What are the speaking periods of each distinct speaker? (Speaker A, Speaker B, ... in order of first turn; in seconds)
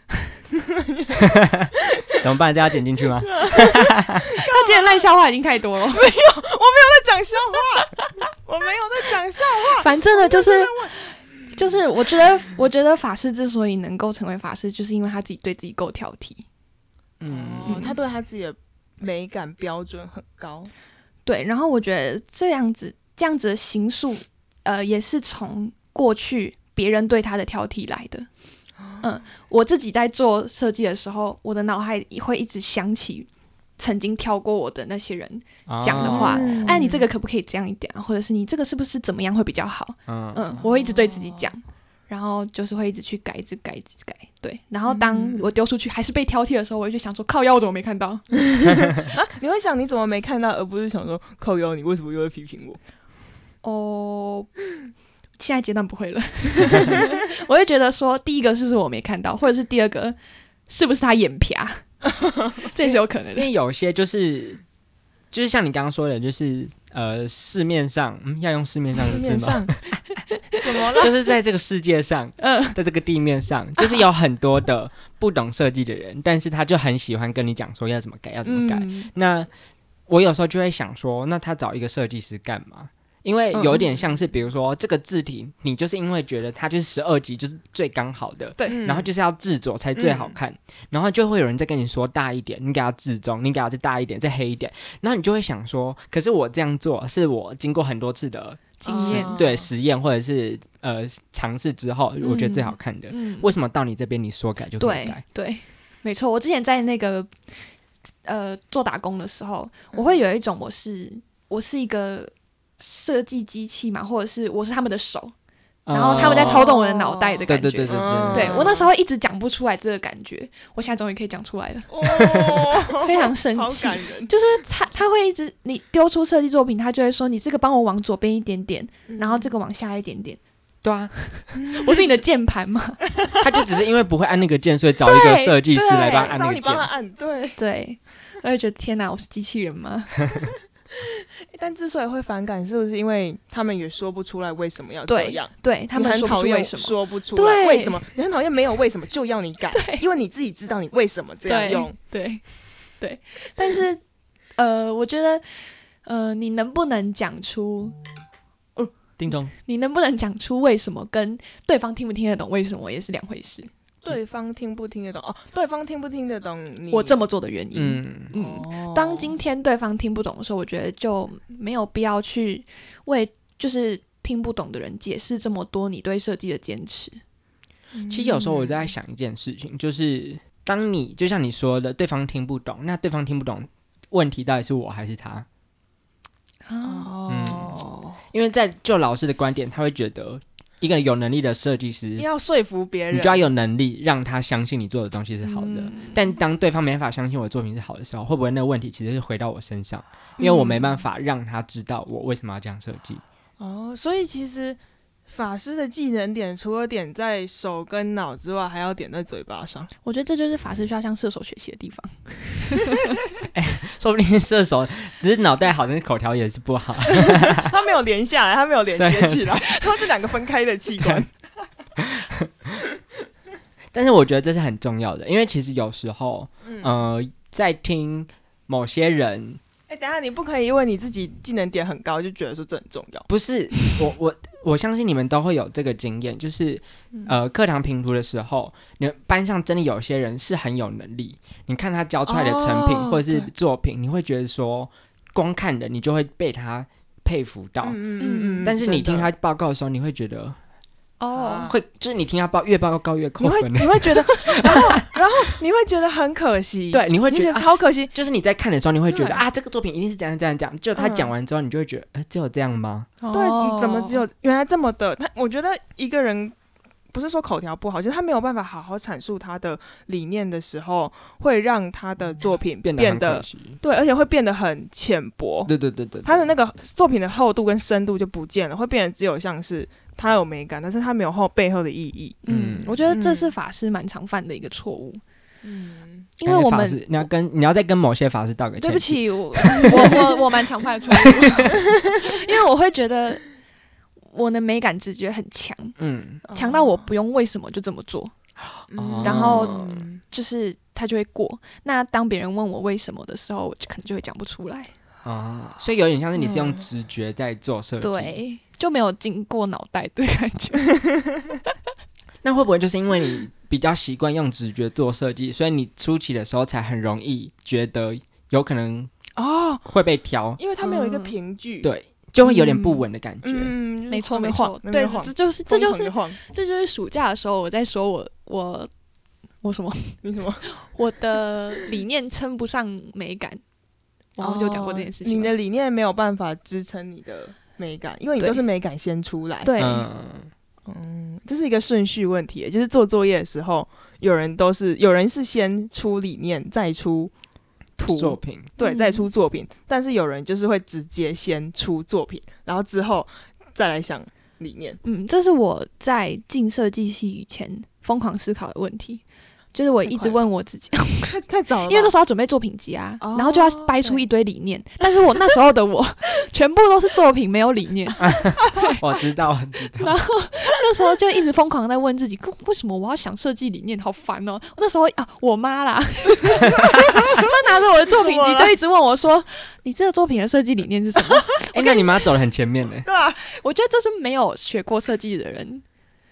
Speaker A: 0.5-1.3, 1.9-2.2, 3.2-5.1, 5.9-11.0, 17.3-20.7, 28.8-29.1, 35.9-37.1, 40.6-41.5, 44.9-45.5, 49.0-52.8, 68.9-69.8, 70.5-71.1, 88.7-89.1, 90.0-90.3, 98.8-99.7, 116.1-118.9, 121.9-124.3, 129.1-129.5, 131.5-132.1, 136.0-137.6, 141.0-151.9, 164.0-167.2, 168.3-169.4, 177.9-178.9, 186.8-188.2, 192.2-193.5, 203.6-209.9, 217.1-221.3, 226.6-226.9, 229.9-233.3, 242.3-243.5, 247.8-249.3, 251.3-251.7, 253.4-258.1, 259.1-259.4, 260.9-261.3, 263.3-266.5, 267.1-275.7, 276.2-282.4, 283.1-283.5, 285.6-286.3, 296.5-297.1, 298.9-300.2, 306.4-306.7, 319.4-319.9, 320.6-321.9, 323.4-326.4, 330.2-330.6, 334.4-339.7, 340.9-347.3, 348.0-355.0, 360.1-360.4, 361.2-362.1, 363.2-364.2, 377.0-377.5, 378.1-378.7, 383.0-383.4
Speaker B: 1.2-4.2, 17.2-18.0, 35.7-36.7, 40.1-40.6, 63.4-64.6, 65.3-69.8, 71.0-79.5, 80.1-105.2, 115.8-116.7, 117.5-118.7, 130.8-131.1, 133.4-136.9, 159.2-159.5, 167.7-168.3, 178.1-185.5, 187.3-187.8, 188.3-192.3, 193.1-203.2, 213.5-217.7, 219.0-219.5, 222.0-222.7, 223.9-229.6, 233.3-248.0, 248.6-250.6, 251.6-255.0, 256.9-263.1, 272.8-273.8, 275.6-276.5, 282.5-283.1, 286.4-290.2, 291.1-291.6, 296.0-296.4, 299.0-300.1, 305.2-308.3, 312.4-319.1, 319.9-320.6, 321.8-323.7, 339.8-340.5, 348.0-348.7, 368.2-370.2, 381.7-383.1
Speaker C: 4.3-6.1, 9.8-16.4, 17.6-18.0, 21.2-28.3, 29.0-48.3, 53.6-54.5, 55.4-60.2, 60.7-61.9, 62.6-63.5, 70.3-70.6, 72.4-72.8, 78.4-79.1, 83.5-83.9, 98.8-99.4, 102.2-103.5, 104.8-107.3, 108.2-115.3, 115.9-130.4, 131.4-133.0, 135.0-136.4, 137.6-140.4, 145.1-148.0, 149.7-150.0, 151.4-152.5, 153.0-154.0, 154.6-155.4, 156.0-158.0, 159.6-163.7, 166.9-177.2, 186.7-187.1, 195.4-196.2, 200.4-201.0, 210.0-213.0, 248.2-248.7, 251.2-251.7, 263.2-264.2, 282.4-285.2, 286.4-287.2, 288.8-293.4, 294.3-298.3, 299.2-304.9, 308.0-311.0, 320.8-321.3, 322.4-323.0, 324.1-328.9, 329.6-333.6, 334.4-335.5, 339.6-340.1, 348.8-349.3, 355.0-359.2, 359.7-369.0, 370.0-382.2, 383.4-385.8